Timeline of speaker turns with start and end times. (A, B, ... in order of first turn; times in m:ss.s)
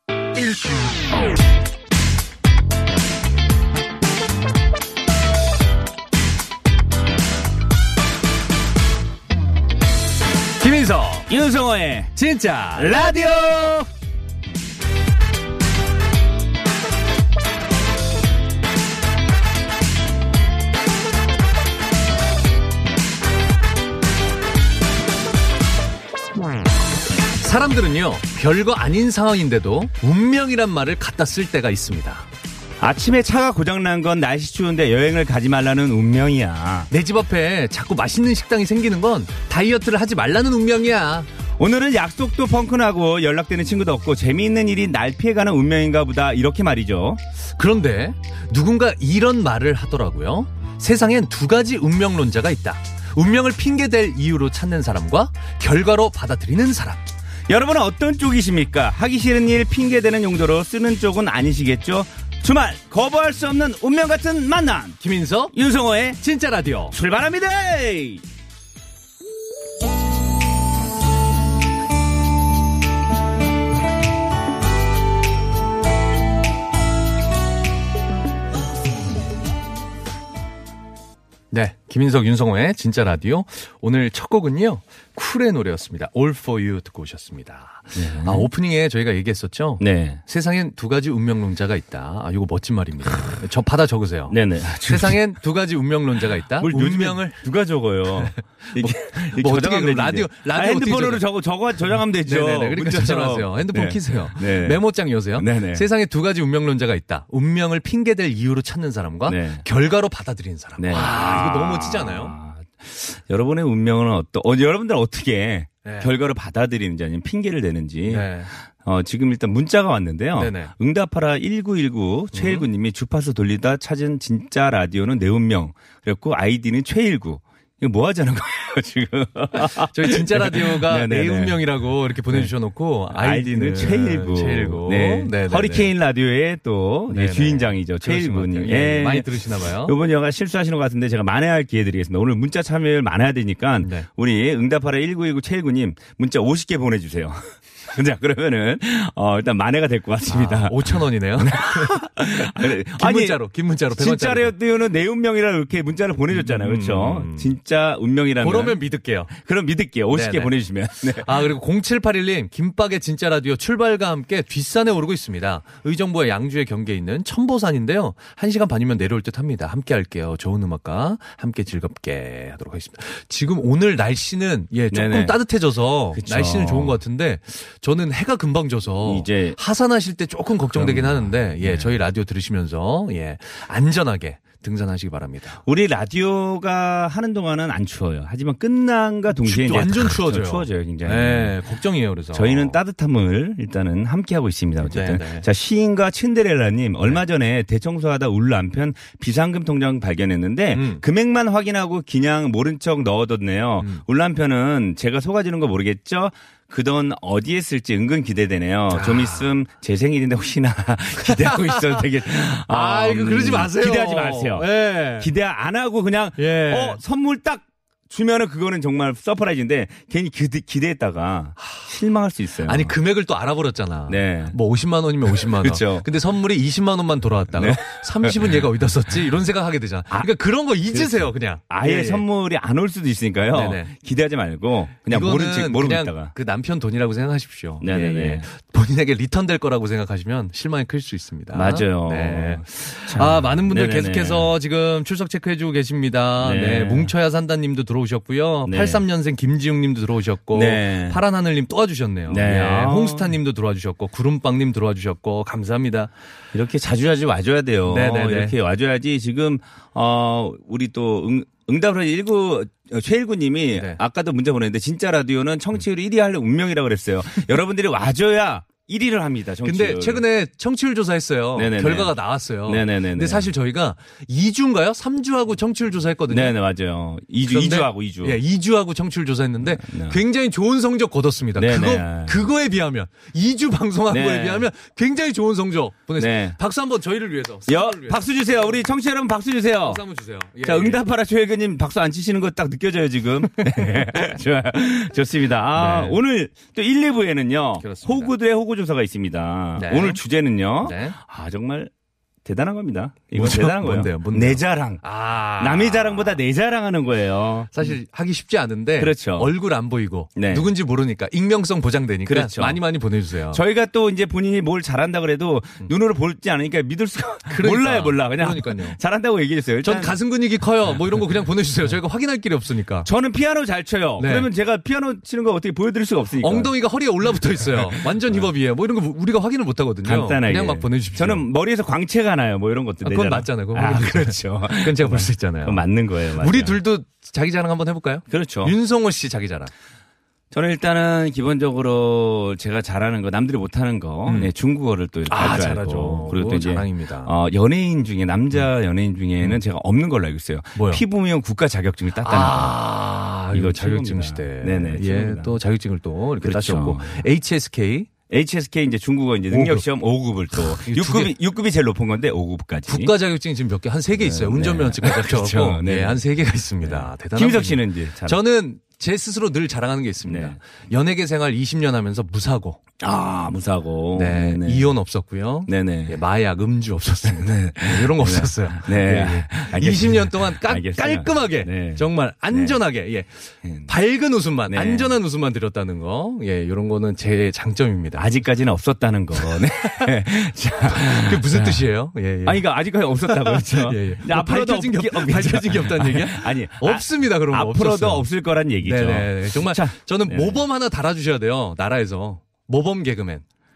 0:10.6-0:11.3 A
0:11.3-0:12.1 B
0:12.1-0:13.0 A
0:12.7-0:13.9 B
0:27.4-0:32.2 A
0:32.8-0:36.9 B
0:36.9-0:41.3 A
0:41.6-0:47.2 B
0:47.6-0:57.1 A
0:57.5-1:05.0 B
1:05.0-1:05.5 A
1:05.5-1:06.2 B
1:06.2-1:06.9 A
1:06.9-1:08.2 B
1:21.5-1:37.4 A
1:27.9-1:28.5 B
1:29.8-1:30.2 B
1:34.3-1:35.2 B
1:36.6-1:44.8 B
1:38.2-1:41.3 A
1:42.0-1:52.3 A
1:45.3-1:45.8 B
1:49.3-1:49.6 B
1:50.8-2:11.7 B
1:55.8-1:56.1 A
1:58.1-1:58.5 A
2:00.3-2:00.7 A
2:02.3-2:02.7 A
2:09.5-2:15.9 A
2:12.3-2:12.5 B
2:13.1-2:41.4 B
2:17.1-2:20.0 A
2:23.8-2:24.1 A
2:30.3-2:34.5 A
2:36.3-2:37.5 A
2:38.4-2:39.3 A
2:40.1-2:40.5 A
2:41.2-3:05.6 A
2:54.9-2:55.4 B
2:56.1-2:57.0 B
2:59.0-2:59.6 B
3:00.7-3:02.0 B
3:05.6-3:11.6 B
3:09.4-3:12.8 A
3:12.3-3:42.9 B
3:14.8-3:15.4 A
3:20.7-3:21.0 A
3:28.9-3:29.4 A
3:31.2-3:35.3 A
3:36.4-3:37.0 A
3:41.6-3:41.9 A
3:42.6-3:52.2 A
3:44.1-3:44.6 B
3:45.3-3:46.1 B
3:47.5-3:48.7 B
3:50.9-3:56.3 B
3:53.5-3:53.9 A
3:55.1-4:16.1 A
3:57.8-3:58.4 B
4:01.5-4:04.5 B
4:06.4-4:07.1 B
4:08.6-4:09.0 B
4:10.5-4:11.2 B
4:12.3-4:13.4 B
4:16.5-4:30.2 B
4:17.9-4:18.5 A
4:23.7-4:24.0 A
4:29.6-4:36.5 A
4:31.6-4:33.5 B
4:36.3-4:38.4 B
4:37.5-4:48.8 A
4:39.6-4:40.2 B
4:41.6-4:42.4 B
4:44.1-4:44.6 B
4:46.2-4:46.6 B
4:47.7-4:50.0 B
4:49.8-4:51.0 A
4:50.6-5:01.9 B
4:54.0-4:54.2 A
4:55.7-4:56.2 A
4:57.8-4:58.3 A
4:59.8-5:00.2 A
5:00.8-5:01.2 A
5:02.4-5:05.0 B
5:03.3-5:06.4 A
5:05.6-5:07.9 B
5:07.7-5:13.6 A
5:09.0-5:09.5 B
5:10.4-5:10.7 B
5:12.2-5:12.8 B
5:13.5-5:20.2 B
5:17.5-5:19.0 A
5:19.8-5:23.1 A
5:23.0-5:26.7 B
5:24.2-5:24.5 A
5:26.4-5:31.4 A
5:27.4-5:28.5 B
5:30.0-5:36.8 B
5:33.0-5:39.7 A
5:38.3-5:38.7 B
5:40.5-5:52.8 B
5:44.2-5:44.5 A
5:45.3-5:47.3 A
5:50.7-5:51.0 A
5:52.2-5:58.1 A
5:53.5-5:55.6 B
5:56.4-5:57.2 B
5:58.3-6:03.1 B
5:59.5-5:59.9 A
6:00.5-6:01.3 A
6:02.9-6:12.8 A
6:04.2-6:06.2 B
6:06.8-6:08.4 B
6:10.2-6:10.6 B
6:13.0-6:14.9 B
6:14.1-6:28.3 A
6:15.7-6:16.2 B
6:17.2-6:22.8 B
6:23.6-6:23.9 B
6:24.7-6:25.1 B
6:28.1-6:31.8 B
6:29.8-6:30.1 A
6:30.9-6:32.7 A
6:32.4-6:40.6 B
6:33.2-6:38.2 A
6:38.8-6:43.4 A